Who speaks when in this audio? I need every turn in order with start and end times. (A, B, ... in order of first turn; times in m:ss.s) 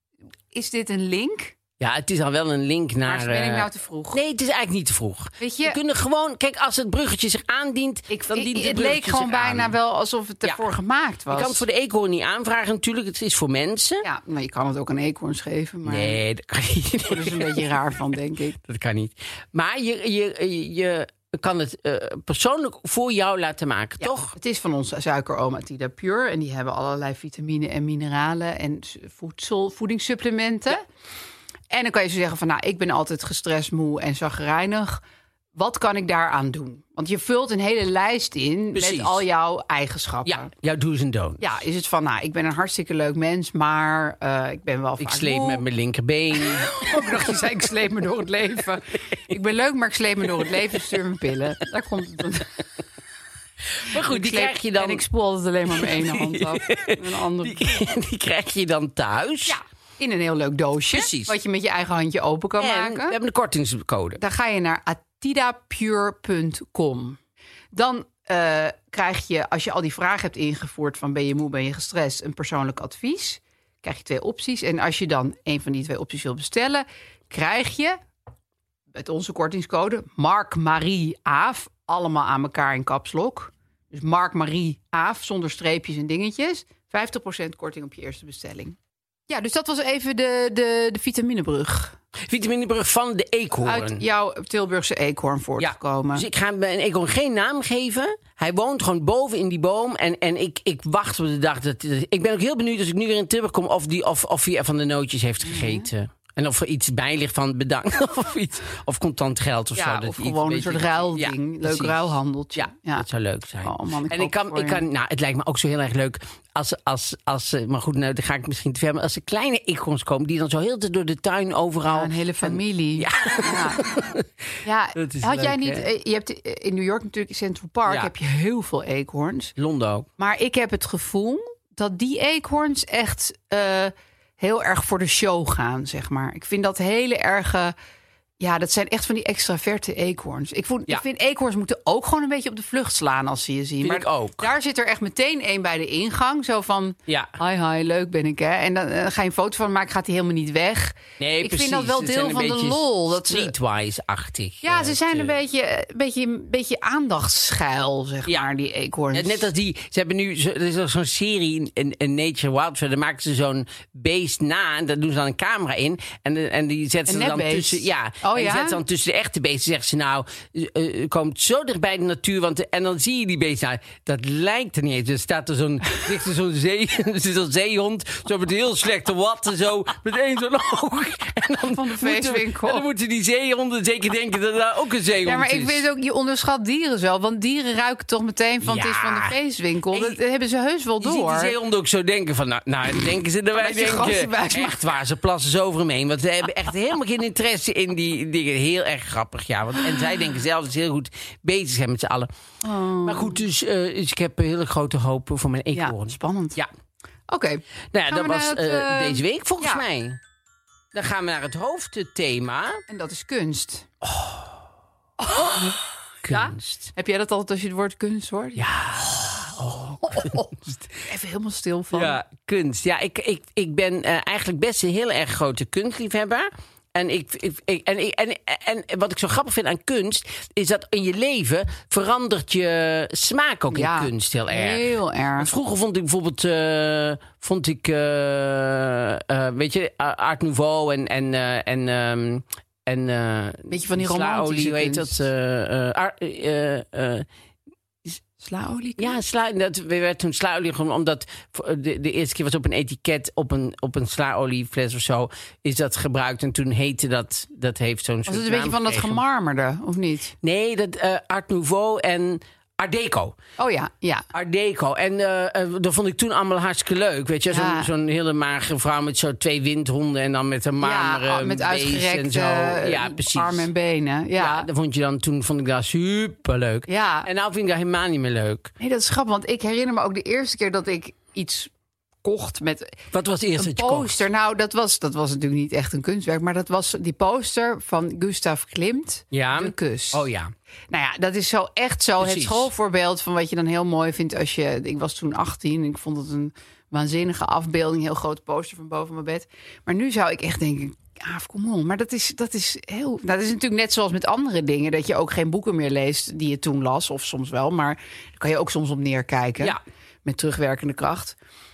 0:00.5-0:01.5 A
0:01.8-0:09.8 B
0:03.0-0:04.2 A
0:05.4-0:05.8 A
0:08.1-0:11.6 A
0:11.3-0:14.0 B
0:14.0-0:16.2 A
0:15.8-0:17.8 B
0:17.0-0:18.6 A
0:18.6-0:24.3 B
0:24.0-0:30.8 A
0:31.7-0:35.0 A
0:35.6-0:40.5 A
0:38.7-0:39.2 B
0:40.2-0:41.5 B
0:41.4-0:45.6 A
0:45.0-0:47.6 B
0:46.4-0:52.6 A
0:50.3-0:50.8 B
0:53.8-0:55.0 B
0:53.9-0:57.6 A
0:55.7-0:59.6 B
0:59.4-1:03.2 A
1:00.9-1:01.4 B
1:02.6-1:04.2 B
1:04.2-1:07.2 A
1:07.7-1:18.0 A
1:18.9-1:28.8 A
1:29.3-1:32.0 A
1:32.2-1:34.0 B
1:33.6-1:36.2 A
1:35.6-2:04.3 B
1:45.4-1:45.9 A
1:49.8-1:53.0 A
1:53.6-1:54.8 A
2:01.9-2:03.8 A
2:04.6-2:09.5 A
2:05.0-2:05.8 B
2:07.9-2:08.1 B
2:09.6-2:10.1 B
2:10.2-2:17.7 A
2:18.4-2:33.5 A
2:23.8-2:24.5 B
2:27.1-2:27.3 B
2:31.2-2:35.4 B
2:34.6-2:39.5 A
2:39.1-3:05.8 B
2:47.1-2:48.8 A
3:01.7-3:02.8 A
3:05.2-3:11.5 A
3:08.6-3:09.4 B
3:09.9-3:10.2 B
3:11.0-3:22.3 B
3:13.5-3:14.8 A
3:22.6-3:23.4 A
3:23.0-3:26.7 B
3:25.7-3:26.6 A
3:27.3-3:29.8 A
3:27.9-3:30.2 B
3:30.9-3:32.8 B
3:32.9-3:33.9 A
3:34.0-3:34.6 B
3:35.2-3:35.7 A
3:35.4-3:35.7 B
3:36.2-3:36.9 B
3:36.3-3:38.7 A
3:38.6-3:40.8 B
3:40.0-3:42.2 A
3:41.9-3:54.8 B
3:53.7-3:55.5 A
3:55.4-4:07.3 B
4:03.7-4:05.2 A
4:08.4-4:09.2 A
4:09.0-4:19.2 B
4:18.3-4:20.3 A
4:20.4-4:23.4 B
4:23.6-4:24.2 A
4:24.3-4:33.7 B
4:27.5-4:27.9 A
4:30.8-4:34.7 A
4:34.3-4:38.7 B
4:36.9-4:37.3 A
4:38.8-4:41.7 A
4:42.2-4:43.0 A
4:43.1-4:44.2 B
4:43.6-4:50.2 A
4:49.3-4:50.5 B
4:50.9-5:11.4 A
4:52.2-4:52.7 B